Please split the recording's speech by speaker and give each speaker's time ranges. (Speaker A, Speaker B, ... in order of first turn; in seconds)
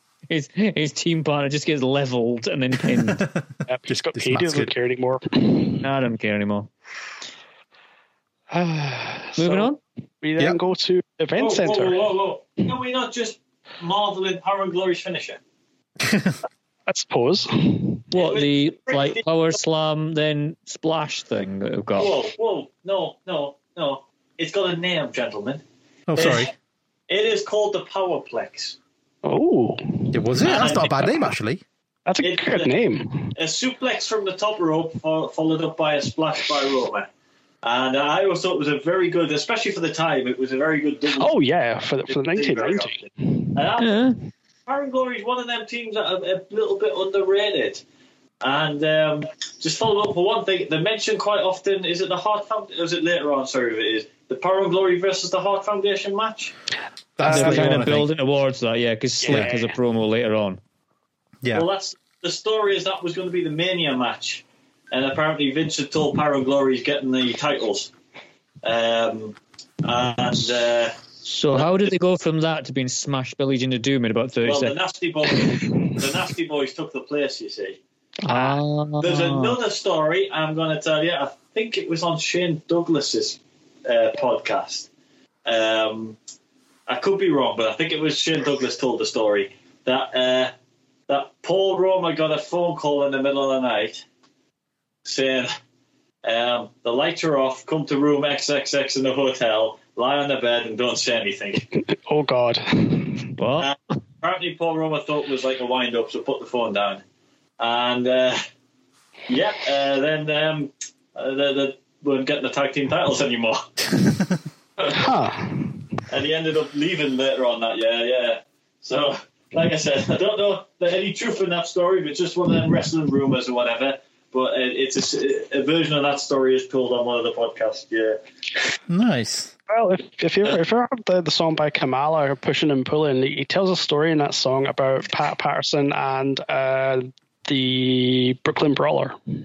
Speaker A: 0.3-3.2, 5.8-6.7, 9.4-9.8, 18.1-22.1, 43.8-44.2, 57.2-60.6, 71.2-74.7, 78.2-79.6, 103.4-103.7
Speaker B: 3.1-4.7, 16.0-16.4, 26.1-26.5, 30.1-31.6, 57.2-58.1, 59.3-59.5, 61.4-61.7, 128.9-129.5
Speaker C: 3.7-5.8, 8.5-9.7, 10.2-12.1, 16.9-18.0, 29.2-30.2, 32.0-33.3, 41.2-43.5, 57.2-57.8, 59.2-59.7, 101.8-103.3, 114.9-115.9, 129.7-139.2
Speaker D: 11.3-15.4, 18.1-19.2, 21.9-25.6, 26.2-26.5, 27.1-28.8, 30.4-31.1, 32.2-32.8, 33.3-37.1, 37.6-41.3, 42.1-44.1, 44.6-47.8, 48.4-56.5, 61.5-67.9, 68.6-71.0, 71.5-71.9, 74.4-77.8, 78.3-84.9, 85.5-86.2, 86.9-90.5, 91.1-94.0, 95.0-95.5, 96.2-101.7, 103.6-107.0, 107.6-108.4, 109.3-113.7, 116.1-128.2